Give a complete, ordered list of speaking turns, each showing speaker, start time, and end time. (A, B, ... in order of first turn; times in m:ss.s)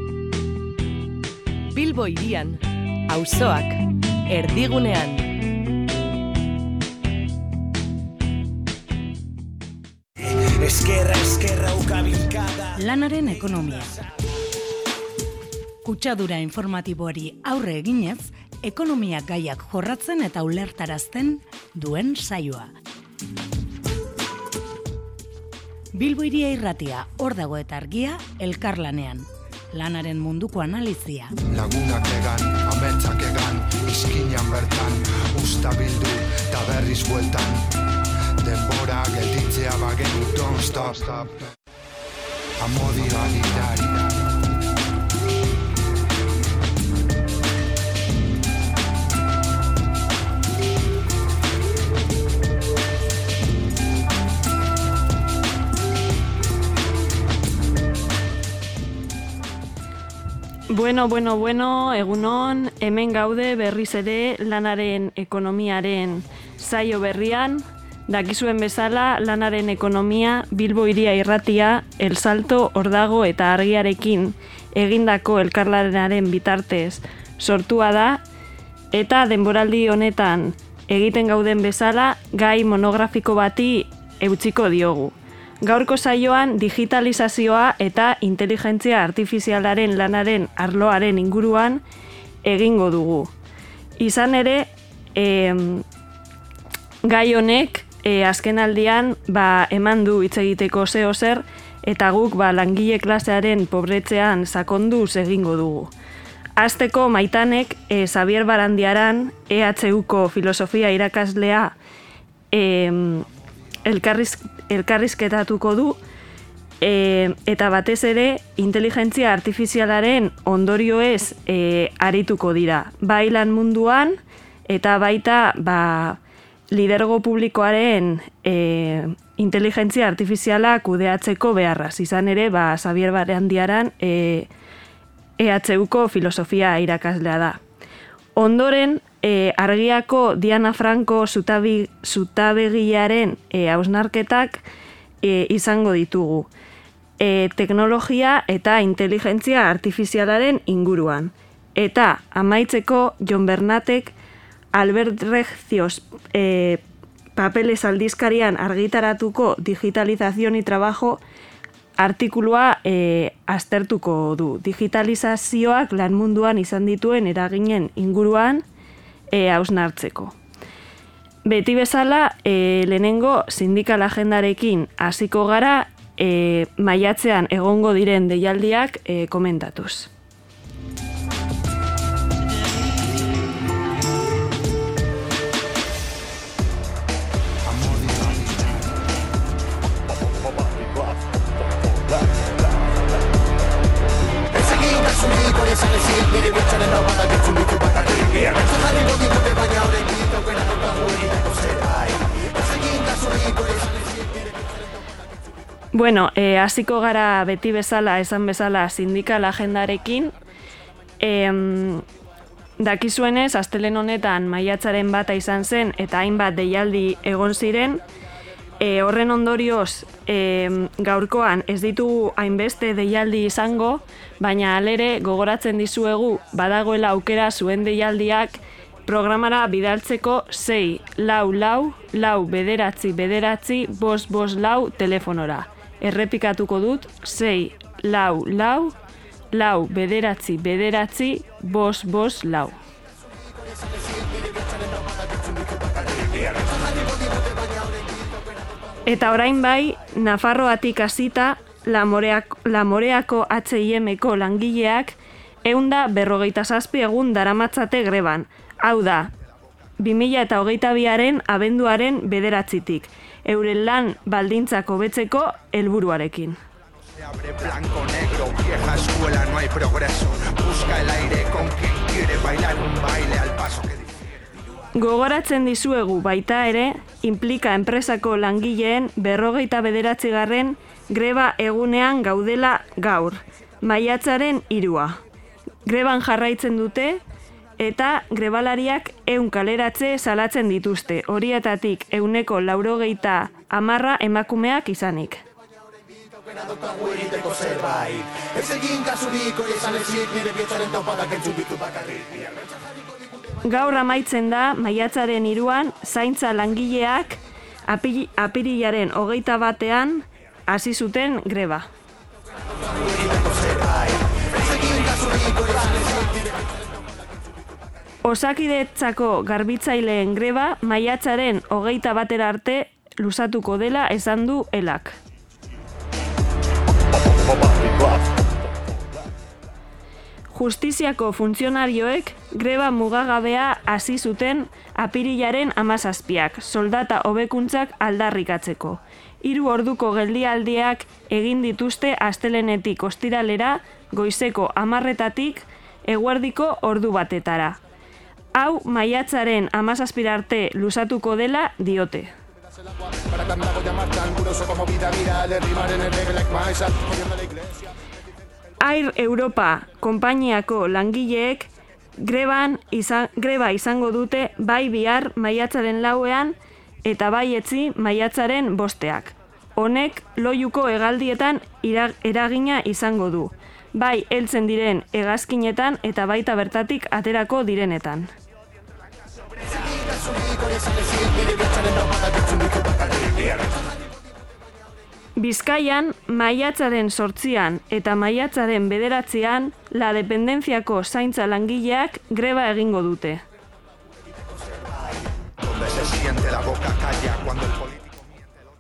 0:01.7-0:05.3 A
0:10.4-0:12.8 B
0:12.8-0:13.9 C
0:15.8-0:22.7 C
0:25.9-0:31.3 C
0:31.5-0:37.7 D
0:38.4-0:41.4 D
0:42.6-0:44.0 D
1:00.7-1:18.2 E
1:18.9-1:31.8 E
1:32.4-1:33.3 E
1:34.0-1:35.8 E
1:37.0-1:45.9 E
1:46.6-1:51.8 E
1:52.5-1:53.3 E
1:53.8-1:56.0 E
1:56.8-2:06.2 E
2:06.7-2:14.5 E
2:15.4-2:17.6 E
2:18.4-2:24.6 E
2:25.2-2:26.5 E
2:27.2-2:34.1 E
2:34.8-2:36.8 E
2:37.4-2:41.2 E
2:42.0-2:48.6 E
2:49.3-2:50.4 E
2:51.5-3:00.1 E
3:07.7-3:08.9 D
3:14.6-3:19.0 D
3:25.9-3:30.3 E
3:31.2-3:32.0 E
3:32.8-3:38.0 E
3:38.8-3:59.0 E
3:59.5-4:02.8 E
4:09.1-4:19.3 E
4:20.0-4:26.6 E
4:27.2-4:34.2 D
4:35.0-4:45.2 E
4:45.9-4:47.2 E
4:47.8-4:55.4 E
4:56.6-5:02.4 D
5:03.6-5:11.9 E
5:13.4-5:13.9 D
5:18.3-5:25.2 E
5:30.5-5:47.8 E
5:48.6-5:52.3 E
5:53.9-5:57.0 D
5:58.8-6:18.3 E
6:23.2-6:23.5 D
6:25.4-6:33.4 E
6:35.6-6:38.2 D